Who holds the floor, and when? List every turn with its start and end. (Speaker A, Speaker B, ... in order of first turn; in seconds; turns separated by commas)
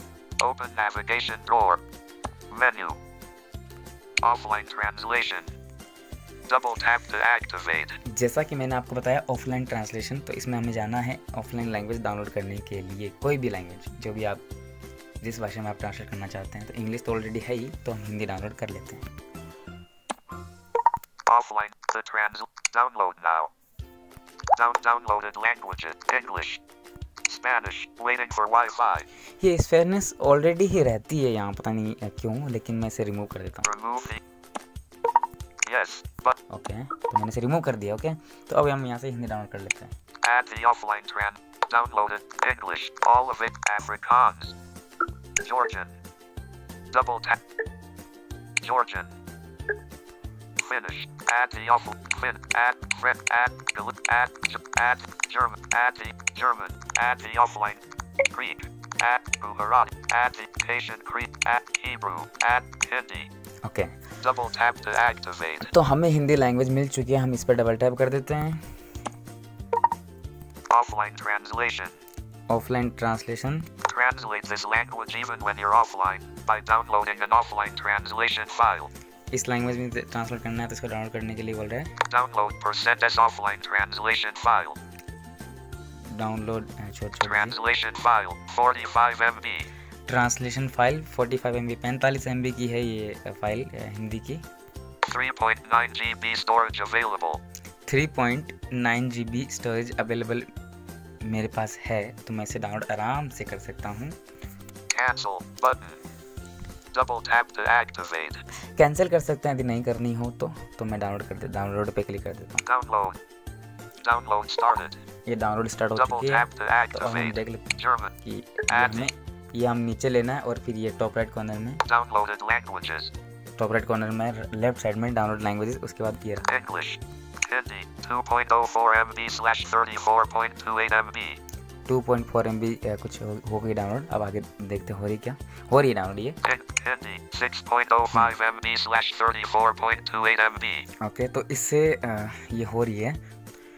Speaker A: 0.4-1.8, Speaker A: 2.5-3.0, Speaker A: 4.2-5.5, Speaker A: 6.5-8.0, Speaker B: 8.0-14.4, Speaker B: 15.2-19.1, Speaker A: 21.2-23.5, Speaker A: 24.5-26.6, Speaker A: 27.2-29.1, Speaker B: 29.4-33.6, Speaker A: 33.6-34.2, Speaker A: 35.6-36.4, Speaker B: 36.5-39.9, Speaker A: 40.2-44.5, Speaker A: 45.4-46.0, Speaker A: 46.9-47.4, Speaker A: 48.6-49.1, Speaker A: 50.6-63.3, Speaker B: 63.6-63.9, Speaker A: 64.2-65.7, Speaker B: 65.6-68.7, Speaker A: 70.7-72.0, Speaker B: 72.5-73.7, Speaker A: 73.8-78.9, Speaker B: 79.3-81.9, Speaker A: 82.1-84.8, Speaker B: 86.0-87.6, Speaker A: 87.2-89.7, Speaker B: 90.1-94.4, Speaker A: 95.0-97.4, Speaker B: 97.9-100.5, Speaker B: 101.2-104.2, Speaker A: 104.9-106.0, Speaker A: 106.9-108.4, Speaker B: 108.8-112.6, Speaker A: 112.6-113.2, Speaker A: 114.0-115.0, Speaker B: 115.2-121.8, Speaker A: 116.0-118.1, Speaker A: 118.7-119.1, Speaker A: 121.8-123.1, Speaker B: 123.6-126.5, Speaker A: 126.5-131.4, Speaker B: 131.8-136.4, Speaker A: 136.4-140.9, Speaker B: 141.0-143.2